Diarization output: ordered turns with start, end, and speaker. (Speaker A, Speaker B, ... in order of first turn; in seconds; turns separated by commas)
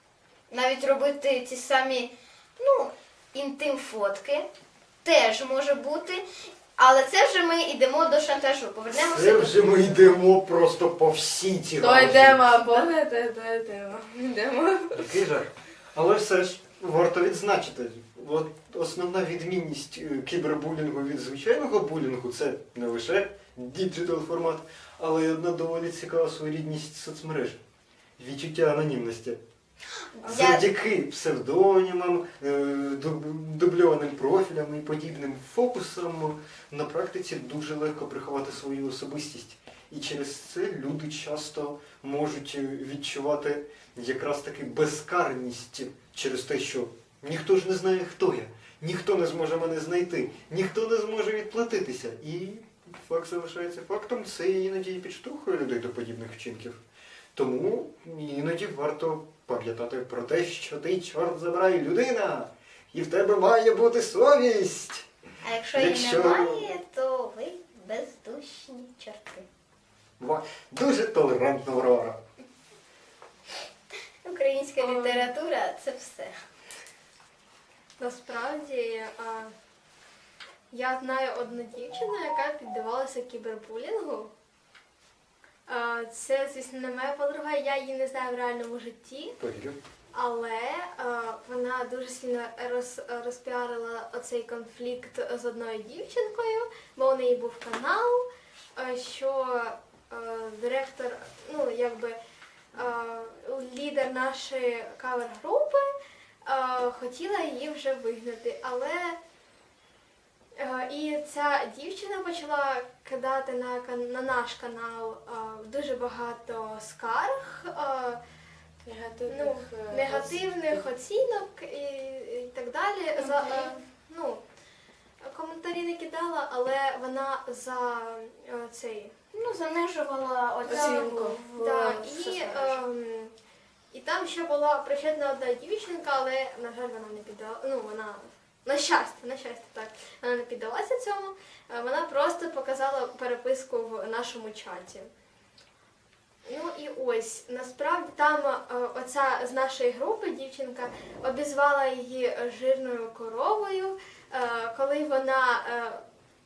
Speaker A: 0.5-4.5, Speaker A: 5.0-6.2, Speaker A: 6.8-10.1, Speaker B: 8.9-12.5, Speaker C: 11.8-15.1, Speaker B: 14.9-27.6, Speaker B: 28.2-29.4, Speaker A: 30.2-30.6, Speaker B: 30.3-56.8, Speaker B: 57.4-65.1, Speaker A: 65.4-69.5, Speaker B: 65.8-66.7, Speaker B: 70.2-72.2, Speaker A: 74.2-76.4, Speaker D: 74.8-75.3, Speaker D: 78.0-79.5, Speaker D: 80.7-84.3, Speaker D: 85.7-89.4, Speaker B: 89.4-89.8, Speaker D: 90.1-102.2, Speaker D: 102.7-105.9, Speaker D: 106.5-109.2, Speaker D: 110.6-118.2, Speaker C: 118.8-120.8, Speaker D: 119.3-124.4, Speaker A: 123.2-123.7, Speaker D: 125.2-129.1, Speaker A: 129.3-132.8, Speaker D: 130.7-133.3, Speaker C: 130.7-131.4, Speaker D: 133.9-145.1, Speaker D: 146.5-156.0